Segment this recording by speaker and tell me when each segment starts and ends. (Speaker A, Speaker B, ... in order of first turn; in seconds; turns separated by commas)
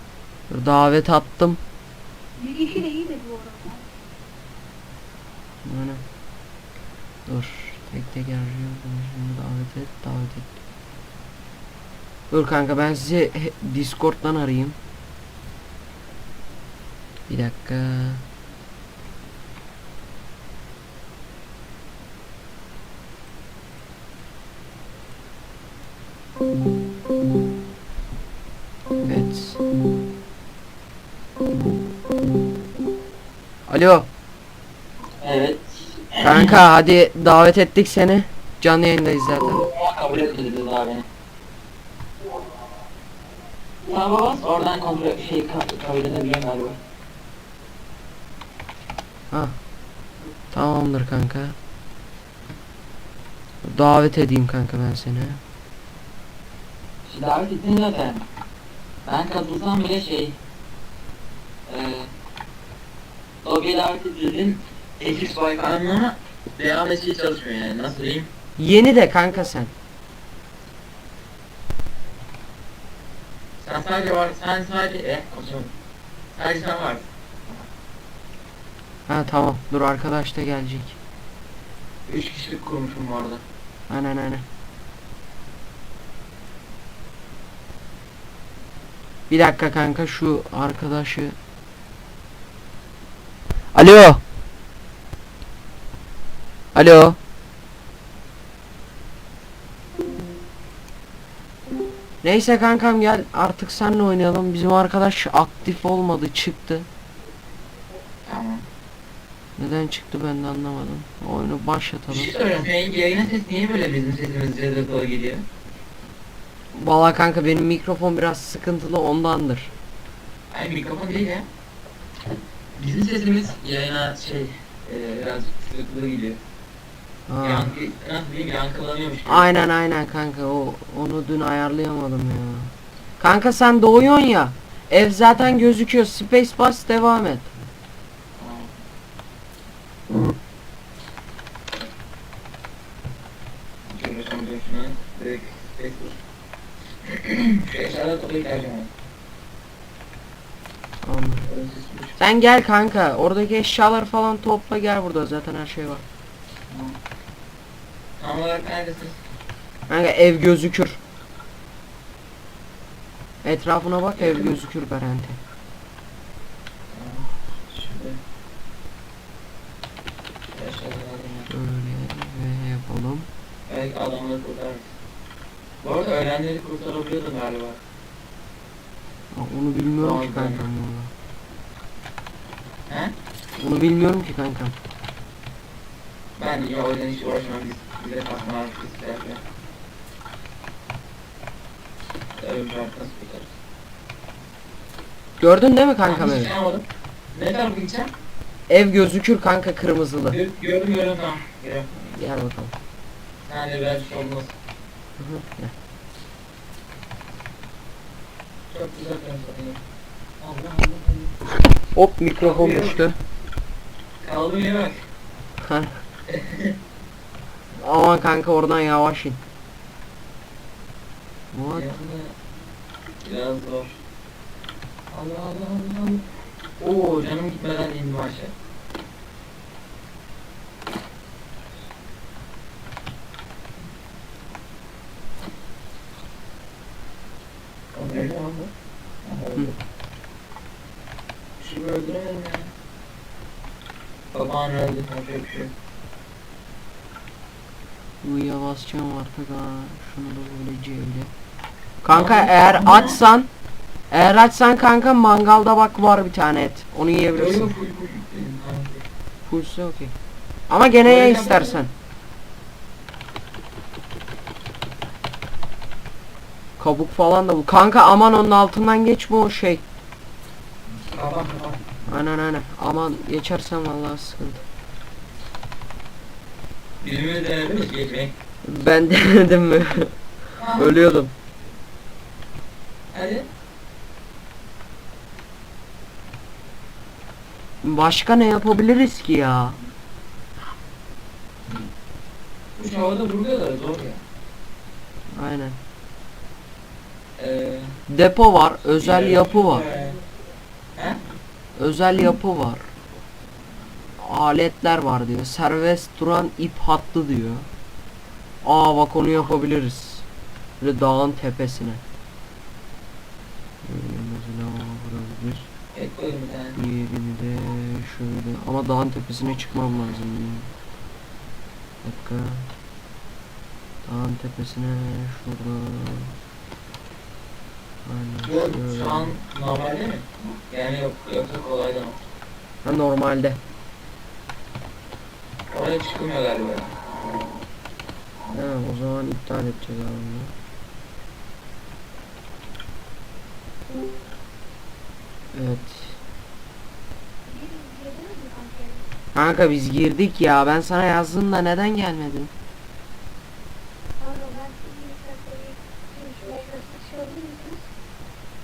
Speaker A: 0.5-1.6, Speaker B: 2.4-3.9, Speaker A: 5.6-6.0, Speaker A: 7.3-10.6, Speaker A: 12.3-14.8, Speaker A: 17.3-18.2, Speaker A: 29.0-29.6, Speaker A: 33.7-34.1, Speaker C: 35.2-36.5, Speaker A: 36.2-39.6, Speaker C: 39.4-41.0, Speaker C: 43.8-46.8, Speaker A: 49.3-49.5, Speaker A: 50.5-51.5, Speaker A: 53.6-55.4, Speaker C: 57.0-58.2, Speaker C: 59.0-60.4, Speaker C: 61.7-62.1, Speaker C: 63.4-68.3, Speaker A: 68.6-69.7, Speaker C: 73.6-75.7, Speaker C: 76.3-77.0, Speaker A: 79.1-81.0, Speaker C: 82.1-83.4, Speaker A: 83.9-84.4, Speaker A: 89.3-91.3, Speaker A: 93.7-94.2, Speaker A: 96.7-97.2, Speaker A: 102.2-106.9, Speaker C: 108.2-108.6, Speaker A: 109.6-112.3, Speaker C: 112.1-115.4, Speaker A: 116.7-119.7, Speaker C: 120.5-121.5, Speaker C: 122.8-126.4, Speaker A: 127.3-127.7, Speaker C: 127.4-129.5, Speaker A: 129.2-137.5, Speaker C: 138.4-138.7, Speaker C: 143.9-146.2, Speaker C: 147.0-148.9, Speaker A: 151.0-151.5, Speaker C: 151.5-152.2, Speaker A: 152.2-156.0, Speaker C: 156.7-156.9, Speaker C: 158.2-159.2, Speaker A: 159.9-161.0, Speaker A: 163.4-165.4, Speaker C: 164.2-164.4, Speaker C: 166.9-168.2, Speaker C: 170.5-171.5, Speaker A: 171.5-173.3, Speaker C: 173.7-174.9, Speaker C: 175.8-177.8, Speaker A: 179.3-181.1, Speaker C: 180.0-180.6, Speaker C: 182.9-183.1, Speaker A: 183.6-184.8, Speaker C: 186.4-189.4, Speaker C: 192.4-193.5, Speaker A: 195.4-196.5, Speaker C: 196.0-198.1, Speaker A: 198.7-200.4, Speaker C: 200.3-201.9, Speaker A: 201.9-202.7, Speaker C: 203.4-204.5, Speaker A: 205.2-205.7, Speaker C: 208.7-209.8, Speaker C: 210.4-211.3, Speaker A: 211.9-213.2, Speaker C: 212.4-213.0, Speaker C: 214.2-215.0, Speaker A: 215.6-216.0, Speaker C: 216.3-216.8, Speaker A: 217.8-219.4, Speaker A: 221.5-221.9, Speaker C: 221.7-222.3, Speaker C: 223.2-224.0, Speaker C: 225.1-226.2, Speaker C: 226.8-228.5, Speaker C: 237.9-238.7, Speaker C: 239.2-239.8, Speaker C: 241.6-242.7, Speaker C: 244.3-245.7, Speaker A: 248.2-251.3, Speaker A: 252.0-253.5, Speaker C: 252.1-253.2, Speaker A: 254.1-257.7, Speaker C: 257.3-259.0, Speaker A: 259.5-260.1, Speaker A: 260.7-261.9, Speaker C: 261.0-261.9, Speaker A: 266.8-269.8, Speaker C: 271.1-271.8, Speaker A: 272.1-274.6, Speaker C: 277.0-278.3, Speaker A: 278.6-280.1, Speaker C: 280.6-281.1, Speaker A: 280.7-281.3, Speaker C: 283.1-283.5, Speaker A: 287.8-289.8, Speaker C: 292.8-294.2, Speaker A: 295.3-295.8, Speaker C: 297.4-298.0, Speaker A: 298.1-299.9, Speaker C: 298.9-300.2, Speaker A: 301.8-302.8, Speaker A: 304.2-307.7, Speaker A: 308.6-310.2, Speaker A: 310.8-312.0, Speaker A: 313.8-315.7, Speaker C: 315.9-316.8, Speaker A: 316.8-320.7, Speaker A: 322.0-322.7, Speaker A: 324.0-326.3, Speaker A: 328.0-329.3, Speaker C: 328.4-332.2, Speaker A: 332.8-333.6, Speaker C: 335.7-336.9, Speaker A: 338.5-340.5, Speaker A: 345.5-346.1, Speaker B: 347.4-349.1, Speaker A: 349.3-352.5, Speaker B: 354.2-357.9